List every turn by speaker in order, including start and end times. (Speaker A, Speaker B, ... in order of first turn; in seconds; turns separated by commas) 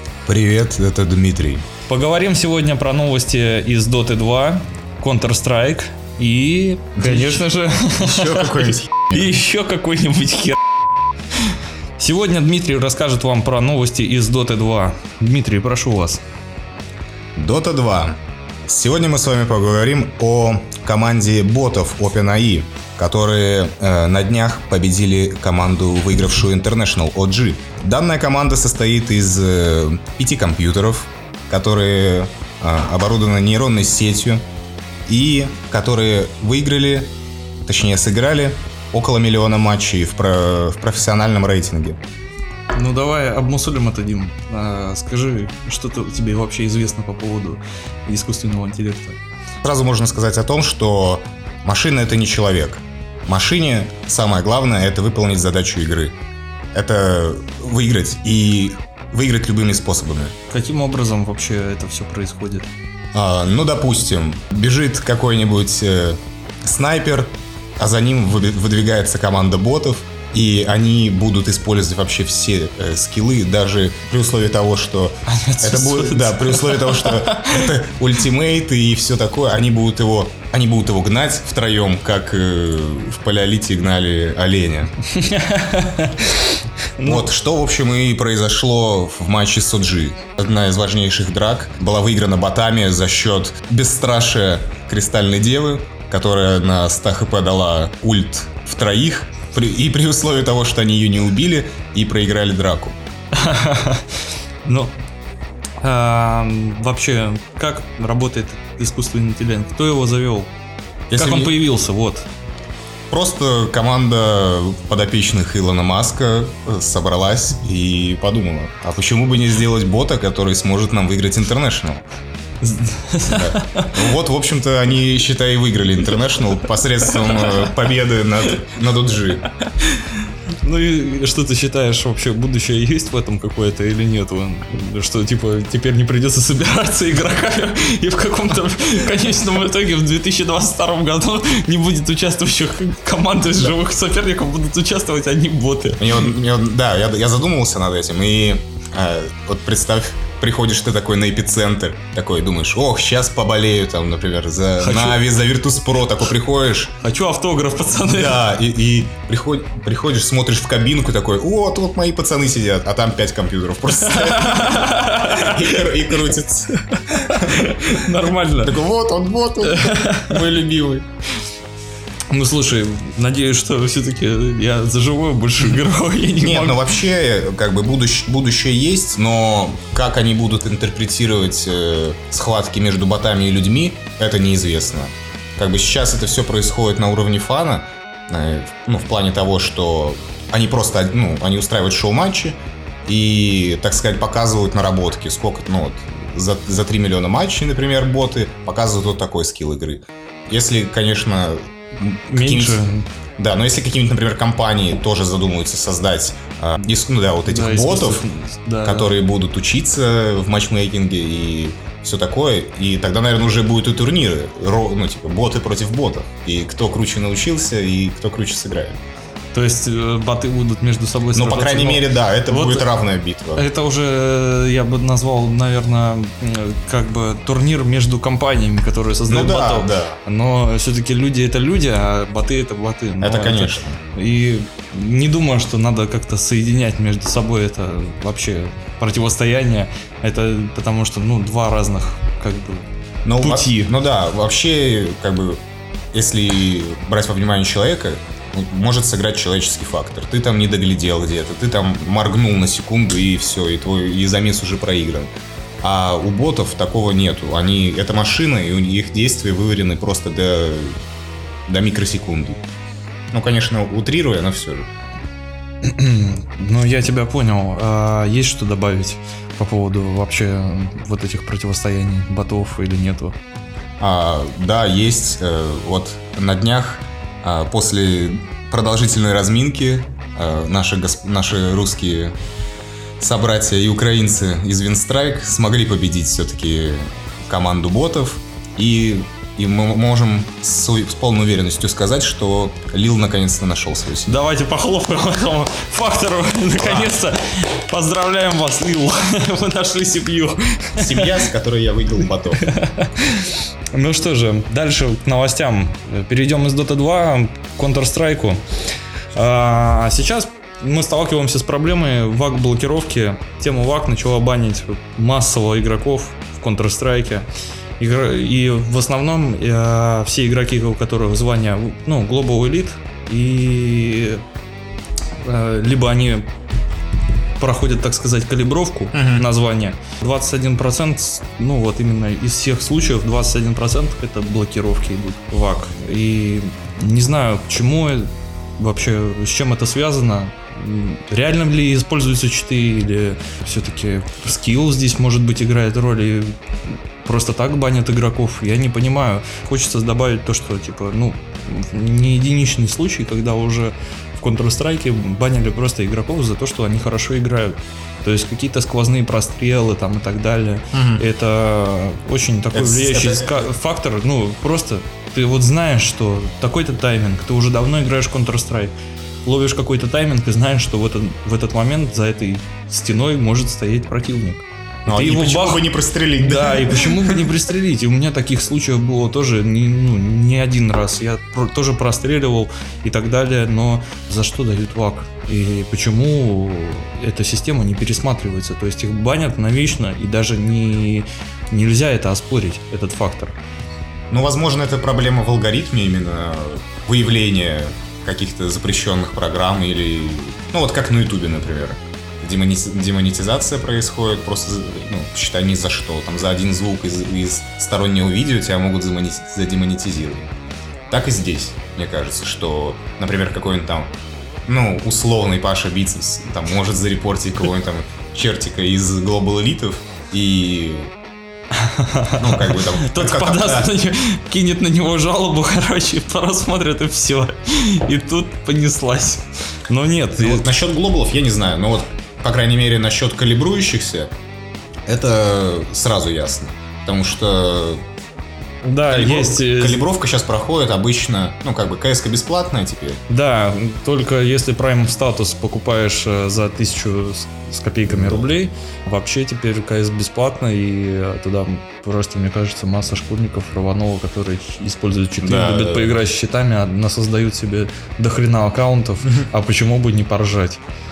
Speaker A: 0.2-1.6, Speaker B: 1.9-10.6, Speaker A: 7.0-7.5, Speaker A: 8.0-9.2, Speaker B: 12.0-16.2, Speaker A: 17.4-34.4, Speaker A: 35.1-37.1, Speaker A: 37.6-42.0, Speaker B: 42.7-49.2, Speaker A: 49.6-56.1, Speaker A: 56.7-60.3, Speaker B: 60.5-62.7, Speaker A: 63.1-84.9, Speaker B: 75.3-77.7, Speaker B: 85.1-87.3, Speaker A: 87.0-103.0, Speaker B: 103.3-104.0, Speaker B: 104.6-104.9, Speaker B: 105.8-110.5, Speaker A: 111.1-111.5, Speaker B: 111.1-112.2, Speaker A: 113.1-122.0, Speaker B: 122.6-123.9, Speaker A: 123.2-129.4, Speaker B: 127.1-127.5, Speaker B: 129.6-146.2, Speaker A: 146.0-156.9, Speaker B: 154.8-155.2, Speaker B: 157.0-158.5, Speaker A: 158.1-167.7, Speaker B: 163.9-165.9, Speaker B: 166.7-168.8, Speaker A: 168.6-171.1, Speaker B: 169.6-170.4, Speaker B: 172.3-176.8, Speaker A: 176.4-202.8, Speaker B: 202.3-203.0, Speaker A: 203.4-208.2, Speaker B: 207.4-209.1, Speaker A: 208.8-219.0, Speaker B: 219.5-222.9, Speaker A: 221.3-223.7, Speaker B: 223.5-242.8, Speaker A: 229.3-230.2, Speaker A: 233.2-234.0, Speaker A: 243.2-245.6, Speaker B: 243.4-243.9, Speaker A: 246.1-255.3, Speaker A: 255.8-261.0, Speaker A: 261.6-262.6, Speaker A: 263.3-264.9, Speaker B: 265.8-273.4, Speaker A: 274.0-282.3, Speaker A: 283.2-294.3, Speaker B: 294.2-301.3, Speaker A: 296.8-297.1, Speaker A: 301.0-302.6, Speaker B: 302.6-308.6, Speaker B: 309.3-317.5, Speaker B: 318.0-324.4, Speaker B: 325.4-326.4, Speaker B: 327.6-346.6, Speaker A: 329.1-329.4, Speaker B: 347.2-368.9, Speaker A: 360.9-361.2, Speaker A: 362.7-363.7, Speaker B: 369.4-375.9, Speaker A: 375.1-377.4, Speaker B: 376.4-393.6, Speaker A: 394.3-410.5, Speaker A: 411.1-414.1, Speaker A: 414.6-421.1, Speaker B: 421.8-430.7, Speaker A: 422.4-423.9, Speaker A: 430.4-434.3, Speaker A: 435.1-438.0, Speaker B: 438.8-440.0, Speaker A: 439.1-443.2, Speaker B: 443.3-460.8, Speaker A: 448.1-448.5, Speaker A: 455.4-456.2